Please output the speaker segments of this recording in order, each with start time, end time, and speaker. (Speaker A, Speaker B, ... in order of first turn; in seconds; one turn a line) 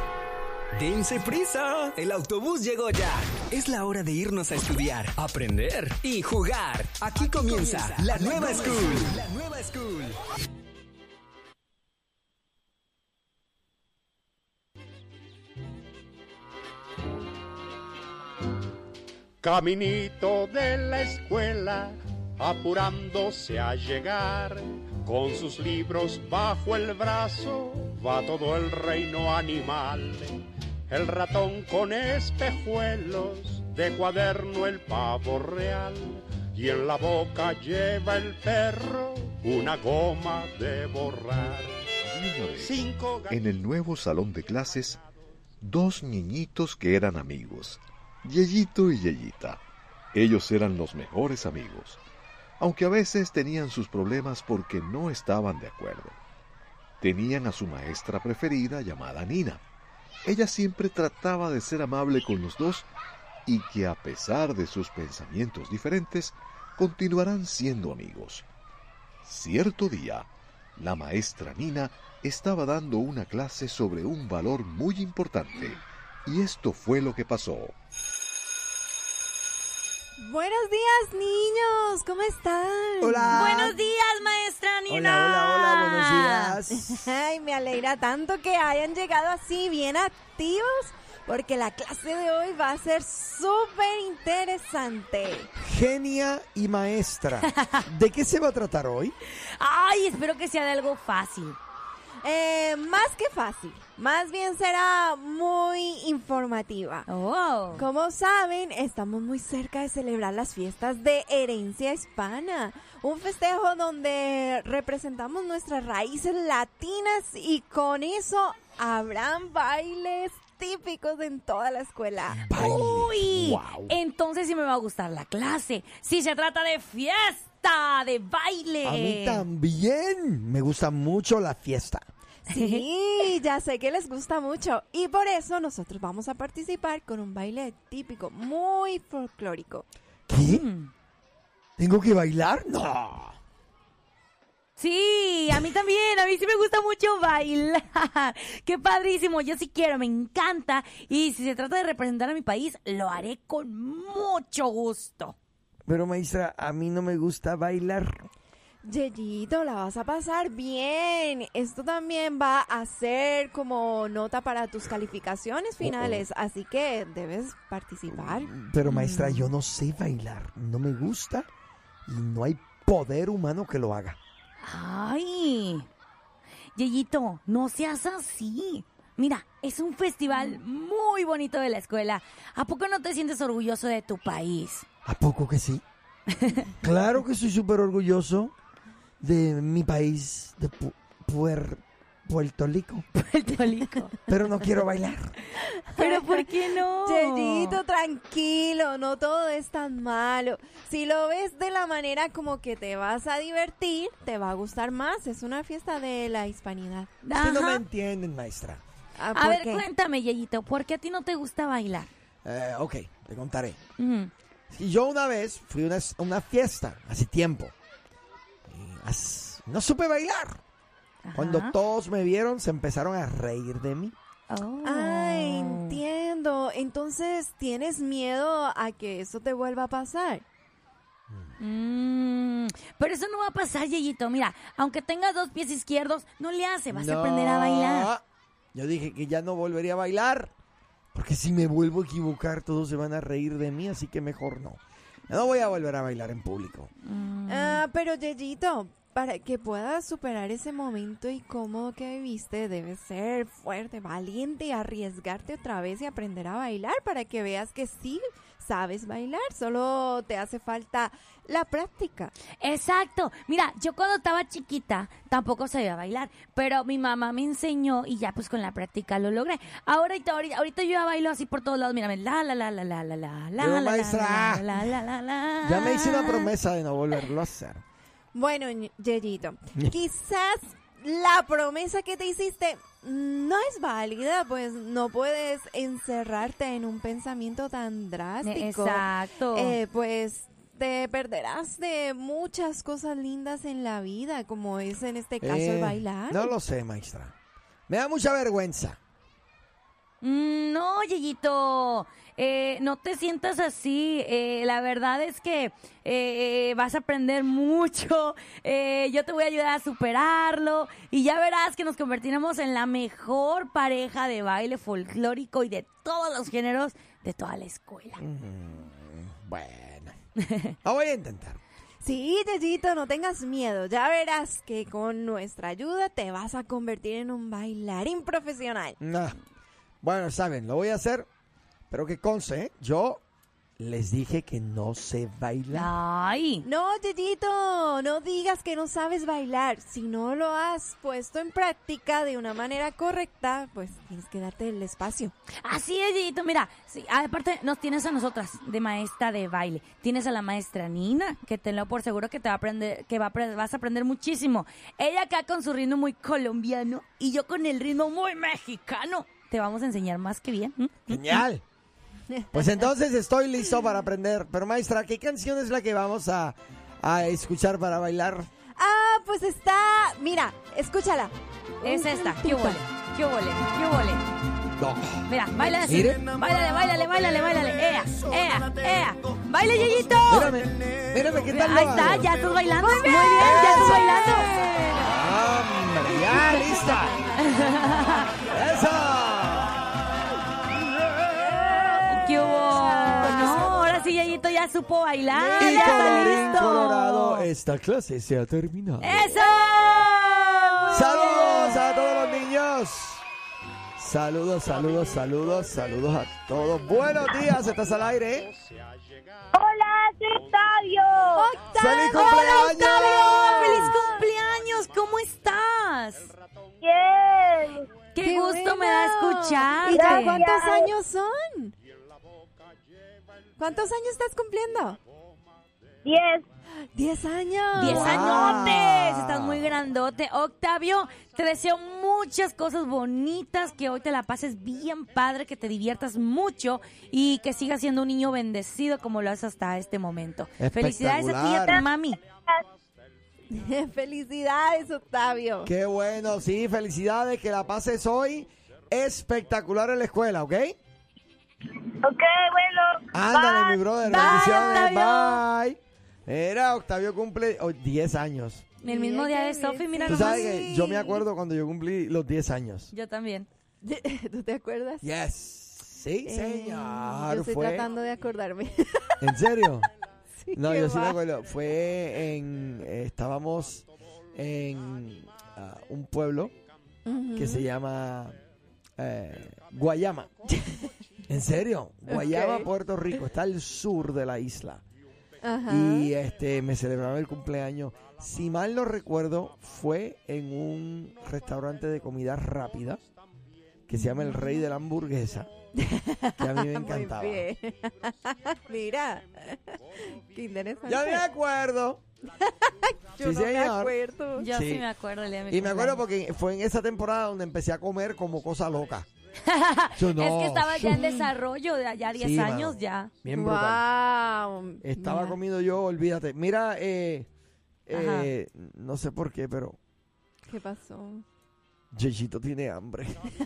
Speaker A: 0.7-10.1
Speaker B: 19.4-30.4
Speaker B: 30.9-41.7
Speaker C: 42.0-45.0
Speaker B: 42.6-43.3
Speaker C: 45.6-49.6
Speaker C: 50.1-52.0
Speaker C: 52.6-56.2
Speaker C: 57.0-59.6
Speaker C: 60.2-62.9
Speaker C: 63.5-68.5
Speaker C: 69.2-77.7
Speaker D: 80.2-83.7
Speaker E: 83.0-83.8
Speaker F: 83.3-86.5
Speaker E: 84.9-87.0
Speaker D: 86.8-95.5
Speaker E: 95.6-99.2
Speaker F: 99.5-101.6
Speaker D: 102.2-107.1
Speaker F: 107.1-107.8
Speaker D: 107.8-122.8
Speaker E: 122.4-124.0
Speaker F: 122.5-129.4
Speaker E: 128.8-132.1
Speaker D: 132.5-139.8
Speaker F: 132.5-132.8
Speaker E: 140.3-140.7
Speaker F: 140.4-140.9
Speaker E: 141.8-143.3
Speaker F: 144.8-155.3
Speaker E: 155.9-158.3
Speaker D: 158.8-168.5
Speaker E: 165.8-166.2
Speaker E: 168.1-171.5
Speaker F: 168.8-169.5
Speaker E: 172.1-174.2
Speaker F: 174.6-175.9
Speaker F: 176.7-184.8
Speaker E: 185.0-185.8
Speaker E: 186.8-188.5
Speaker E: 189.2-193.1
Speaker F: 193.1-194.1
Speaker E: 194.3-195.3
Speaker D: 195.9-207.1
Speaker F: 196.0-197.8
Speaker F: 207.2-207.8
Speaker E: 207.3-208.8
Speaker D: 209.2-209.8
Speaker F: 209.3-212.1
Speaker E: 212.4-213.8
Speaker F: 214.0-214.3
Speaker E: 214.7-217.7
Speaker E: 218.7-220.6
Speaker F: 221.2-221.7
Speaker E: 221.3-224.1
Speaker F: 224.5-226.0
Speaker D: 224.8-230.4
Speaker F: 231.6-238.1
Speaker E: 236.9-238.2
Speaker E: 238.7-240.5
Speaker E: 241.1-246.9
Speaker F: 247.0-247.8
Speaker D: 247.5-262.3
Speaker F: 262.6-276.5
Speaker E: 273.6-274.8
Speaker E: 275.6-277.8
Speaker D: 278.3-296.5
Speaker F: 288.4-289.8
Speaker E: 295.4-297.3
Speaker E: 297.9-299.0
Speaker F: 300.2-318.2
Speaker E: 318.2-320.1
Speaker E: 320.8-321.6
Speaker D: 322.0-328.9
Speaker E: 329.0-329.4
Speaker E: 330.0-331.3
Speaker E: 331.9-333.2
Speaker E: 333.8-335.9
Speaker F: 335.7-336.6
Speaker D: 336.6-345.3
Speaker F: 345.6-361.4
Speaker E: 361.1-361.6
Speaker D: 362.3-362.7
Speaker E: 362.5-368.5
Speaker D: 368.8-372.8
Speaker F: 371.8-374.2
Speaker E: 374.8-375.3
Speaker F: 375.3-380.6
Speaker E: 375.9-376.2
Speaker E: 380.3-382.3
Speaker F: 381.4-385.1
Speaker D: 382.8-384.6
Speaker E: 383.4-384.1
Speaker E: 385.0-387.2
Speaker F: 386.3-388.3
Speaker E: 388.5-389.9
Speaker F: 392.1-397.5
Speaker D: 392.9-393.7
Speaker D: 395.3-396.6
Speaker E: 395.5-399.3
Speaker F: 399.0-401.8
Speaker G: 399.7-400.1
Speaker E: 400.9-403.2
Speaker D: 401.4-401.6
Speaker E: 404.0-408.5
Speaker G: 409.5-411.5
Speaker D: 411.3-413.9
Speaker E: 411.7-413.9
Speaker F: 412.1-416.3
Speaker G: 413.3-413.9
Speaker G: 416.8-417.8
Speaker F: 418.1-420.4
Speaker D: 418.2-421.7
Speaker G: 419.9-420.9
Speaker D: 423.6-425.0
Speaker G: 426.0-426.4
Speaker D: 426.9-428.7
Speaker F: 427.7-442.2
Speaker E: 427.8-429.9
Speaker E: 440.6-441.9
Speaker D: 443.5-445.7
Speaker E: 445.6-450.8
Speaker G: 452.0-453.8
Speaker E: 453.1-458.7
Speaker F: 454.0-455.4
Speaker D: 454.1-454.8
Speaker F: 458.8-460.6
Speaker D: 458.8-461.2
Speaker E: 460.1-462.9
Speaker F: 462.9-463.5
Speaker D: 463.8-465.0
Speaker E: 465.0-467.9
Speaker D: 466.2-469.3
Speaker E: 469.2-469.9
Speaker D: 470.4-471.2
Speaker E: 470.5-476.5
Speaker D: 477.1-477.7
Speaker E: 477.3-478.4
Speaker E: 479.0-480.3
Speaker E: 481.3-484.8
Speaker D: 482.1-482.7
Speaker D: 485.4-486.1
Speaker E: 485.7-493.0
Speaker E: 493.9-495.5
Speaker D: 493.9-494.6
Speaker D: 495.8-501.2
Speaker E: 496.4-497.5
Speaker E: 500.9-502.0
Speaker D: 502.4-504.5
Speaker E: 503.2-503.9
Speaker F: 504.4-506.0
Speaker E: 504.5-504.9
Speaker E: 505.5-509.1
Speaker F: 509.5-513.1
Speaker E: 509.9-511.0
Speaker D: 510.9-511.3
Speaker E: 512.1-513.8
Speaker D: 513.3-515.3
Speaker E: 514.8-517.3
Speaker E: 517.9-519.8
Speaker F: 517.9-518.3
Speaker D: 520.5-521.2
Speaker E: 521.9-523.2